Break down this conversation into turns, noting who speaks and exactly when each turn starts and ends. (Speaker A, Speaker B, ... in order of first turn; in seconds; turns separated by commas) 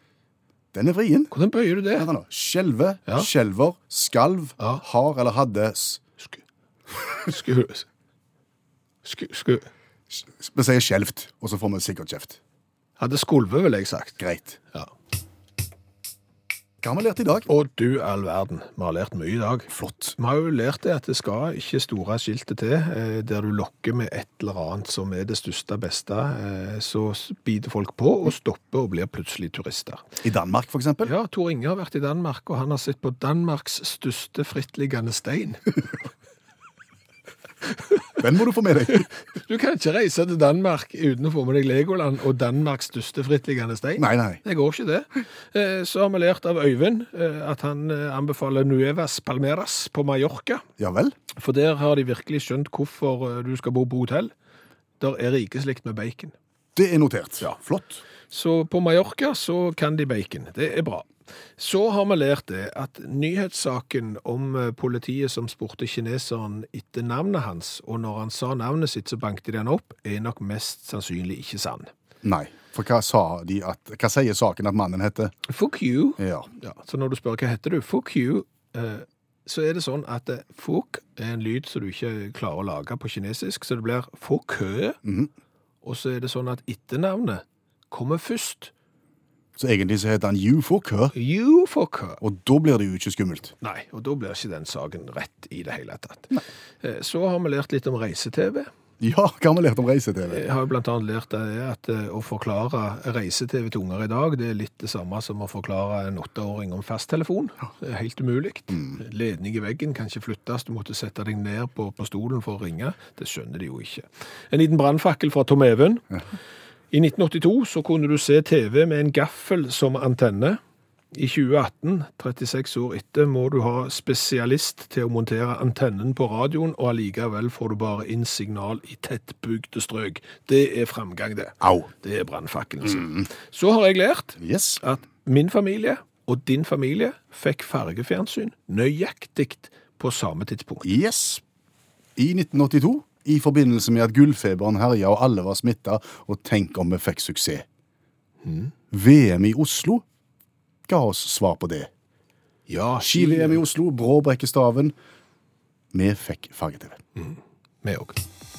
Speaker A: 0.7-1.4, Speaker B: 1.3-2.1, Speaker A: 2.0-6.0, Speaker B: 7.2-7.9, Speaker B: 9.0-9.7, Speaker A: 10.1-12.4, Speaker B: 13.0-14.2, Speaker A: 14.2-14.6, Speaker A: 16.8-17.5, Speaker B: 17.5-30.0, Speaker A: 19.7-20.1, Speaker A: 30.2-31.1, Speaker B: 31.0-35.6, Speaker A: 38.2-39.1, Speaker B: 39.3-50.6, Speaker A: 44.0-44.4, Speaker A: 50.8-51.1, Speaker B: 51.4-54.3, Speaker B: 55.0-56.4, Speaker A: 56.8-58.0, Speaker B: 58.3-71.9, Speaker A: 72.2-75.3, Speaker B: 75.5-85.0, Speaker A: 76.2-76.5, Speaker A: 85.0-85.3, Speaker B: 85.8-88.7, Speaker A: 89.6-91.1, Speaker B: 91.1-92.2, Speaker A: 92.2-93.5, Speaker B: 93.6-98.7, Speaker A: 99.0-100.4, Speaker B: 100.3-116.2, Speaker A: 108.7-109.0, Speaker B: 116.9-120.6, Speaker B: 121.1-140.9, Speaker A: 131.6-131.9, Speaker A: 132.8-133.3, Speaker A: 134.4-134.8, Speaker A: 140.8-141.4, Speaker A: 142.2-147.7, Speaker B: 148.4-148.7, Speaker A: 148.9-150.0, Speaker A: 150.9-151.9, Speaker B: 152.7-153.7, Speaker A: 153.0-155.0, Speaker A: 155.9-157.0, Speaker B: 157.2-158.2